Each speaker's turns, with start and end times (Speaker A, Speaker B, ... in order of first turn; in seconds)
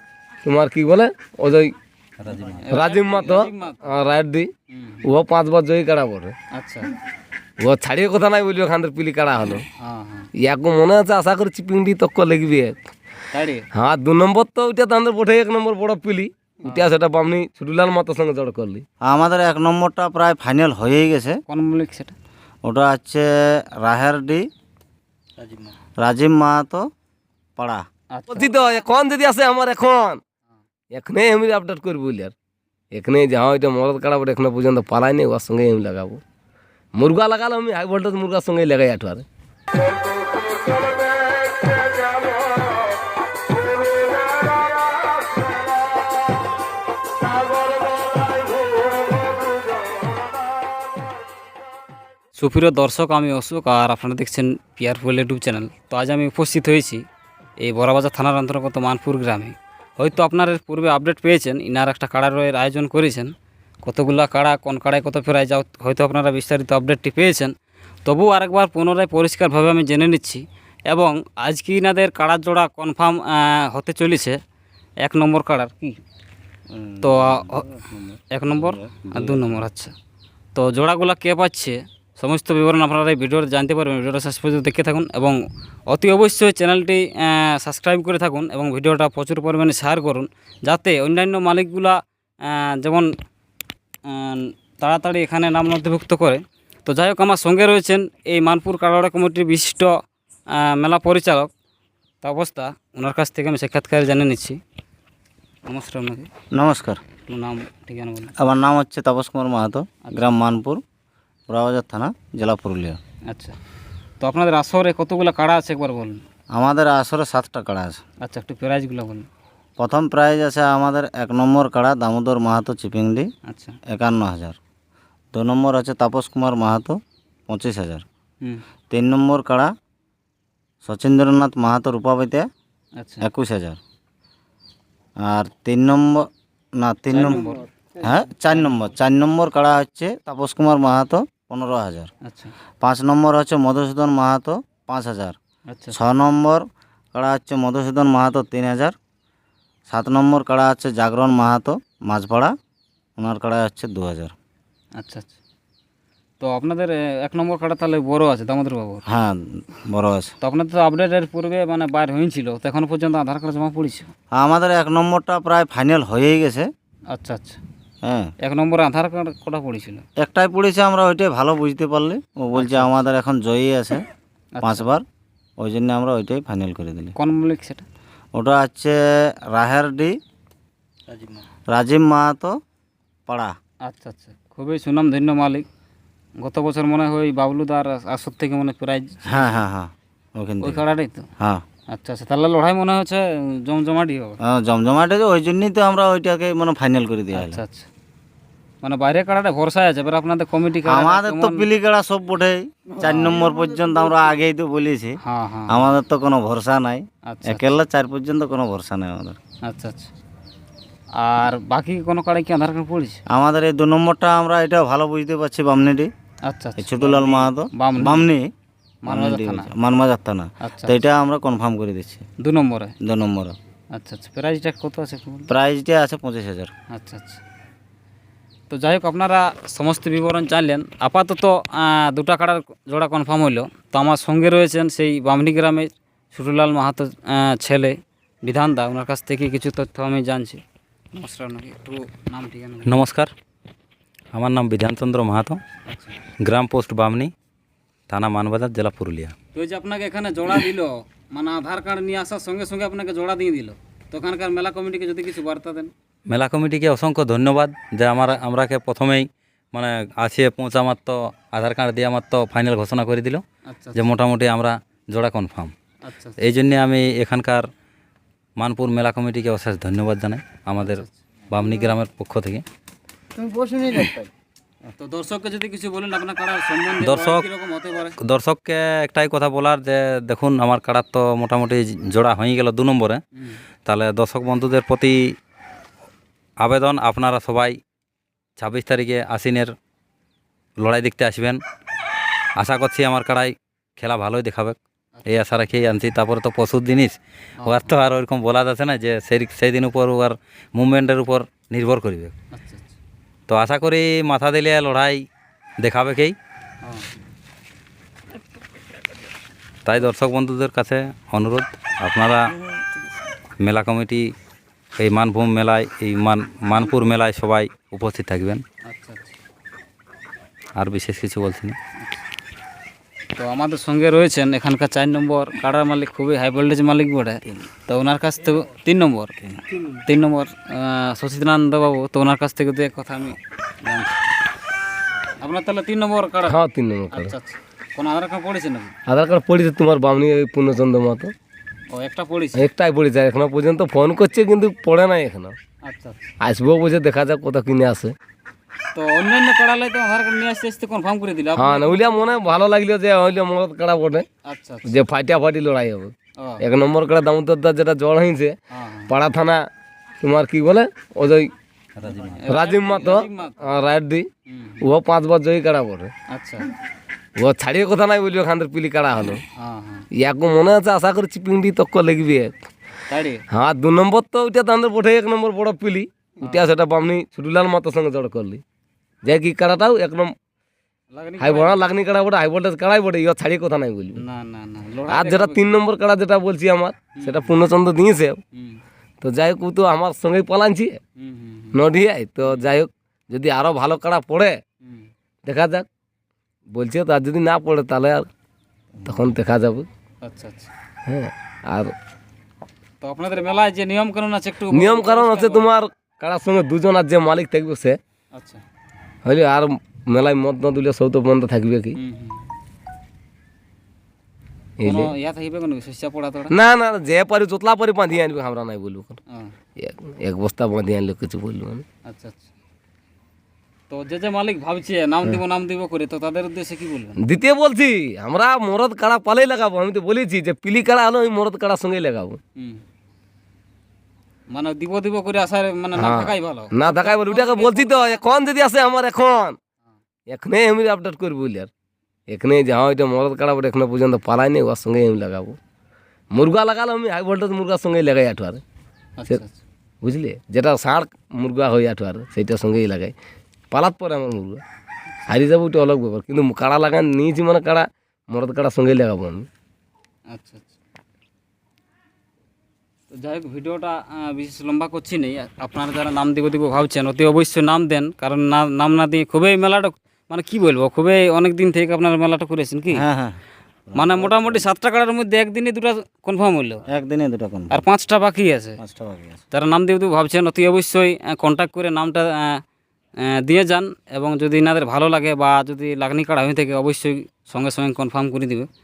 Speaker A: 0.4-1.7, 2.7-4.5, 5.1-6.3, 7.6-9.7, 10.4-12.8, 13.7-18.8, 28.3-30.2, 30.9-32.3, 32.9-36.2, 37.0-39.2, 336.5-337.4, 339.1-341.3, 342.6-345.6, 346.4-348.1, 351.6-354.2, 354.9-358.6, 359.1-359.6, 360.2-361.5, 362.5-364.3, 364.8-366.1, 367.4-369.4, 370.2-372.5, 373.5-378.6, 379.2-380.3, 381.4-384.2, 385.1-388.4, 389.2-391.0, 391.7-394.6, 395.4-395.9, 396.7-398.3, 399.0-399.9, 401.1-401.9, 404.7-408.0, 409.2-412.0, 414.8-415.1, 416.5-419.2, 419.8-421.8, 427.2-432.4, 436.0-439.6, 440.3-441.7, 442.3-445.6, 446.3-448.6, 450.0-453.1, 453.7-454.6, 455.3-459.5
Speaker B: 2.2-2.6, 242.8-243.3, 244.3-245.6, 246.4-247.3, 248.1-249.3, 256.3-263.4, 263.9-265.7, 266.4-267.7, 268.6-272.6, 277.0-277.5, 278.2-283.2, 283.9-285.3, 286.6-287.8, 288.6-289.7, 290.8-291.6, 292.6-302.3, 303.5-305.2, 305.8-306.4, 309.9-312.5, 313.6-314.2, 315.0-318.6, 320.8-321.8, 362.0-362.4
Speaker C: 2.5-3.9, 4.7-5.0, 6.5-6.9, 9.8-10.3, 13.3-13.7, 21.5-22.1, 28.1-28.5, 52.3-57.0, 57.6-63.3, 63.8-67.5, 68.0-74.4, 75.0-76.0, 77.0-77.7, 78.3-79.9, 80.5-93.1, 94.0-100.0, 100.5-101.5, 102.2-104.6, 105.7-106.3, 107.3-108.3, 110.0-110.4, 113.3-113.6, 114.2-116.2, 118.2-119.3, 123.5-123.8, 133.0-133.2, 137.1-137.7, 142.2-142.5, 145.7-145.9, 155.0-155.4, 156.4-159.0, 160.4-164.1, 167.1-167.6, 168.4-170.0, 172.5-173.0, 174.5-174.9, 177.2-177.8, 183.8-185.7, 186.4-189.4, 190.6-191.3, 191.9-194.4, 197.3-197.9, 198.8-201.7, 203.0-203.4, 205.2-205.9, 207.3-207.7, 209.6-210.1, 211.2-213.2, 216.4-218.2, 219.0-219.7, 220.6-221.0, 222.4-222.9, 223.9-225.5, 226.9-227.4, 228.7-240.6, 241.1-243.0, 245.9-246.2, 249.5-255.9, 263.7-264.1, 266.0-266.4, 270.8-271.1, 275.0-278.2, 295.2-295.4, 297.6-297.9, 302.5-303.0, 318.9-319.3, 323.4-329.4, 329.9-334.2, 335.4-336.6, 337.1-338.9, 341.9-342.7, 345.8-346.3, 348.9-352.4, 354.5-355.0, 356.4-356.6, 358.7-359.1, 362.2-363.7, 364.5-364.8, 366.3-366.7, 369.6-370.1, 373.1-373.4, 381.1-381.8, 384.2-385.8, 387.1-387.5, 388.5-388.8, 391.2-391.8, 394.8-395.1, 400.2-400.7, 403.0-405.7, 408.3-408.6, 412.0-412.5, 414.8-416.6, 422.1-422.5, 423.9-427.2, 432.6-432.8, 434.5-438.2, 449.2-449.6, 460.3-460.8, 463.1-473.0, 473.9-476.8, 477.7-478.8, 479.5-482.6, 483.2-488.7
Speaker D: 19.0-21.4, 22.6-24.4, 26.0-26.8, 27.6-27.8, 76.7-79.4, 106.5-107.0, 108.4-110.8, 111.5-113.0, 116.5-118.0, 119.8-123.3, 123.9-124.6, 125.3-128.0, 128.9-129.7, 130.8-132.5, 133.2-133.8, 135.2-142.1, 142.8-145.4, 145.9-148.9, 149.9-152.5, 153.2-154.3, 159.1-160.3, 164.3-166.7, 168.0-168.3, 170.2-174.0, 174.6-175.0, 175.6-177.1, 178.3-180.1, 181.7-182.6, 183.3-183.5, 189.3-190.8, 194.4-197.6, 200.8-205.2, 205.7-209.4, 213.3-216.1, 216.8-218.5, 219.1-222.2, 223.0-223.6, 225.5-226.7, 472.9-474.7, 476.9-477.8, 478.8-479.4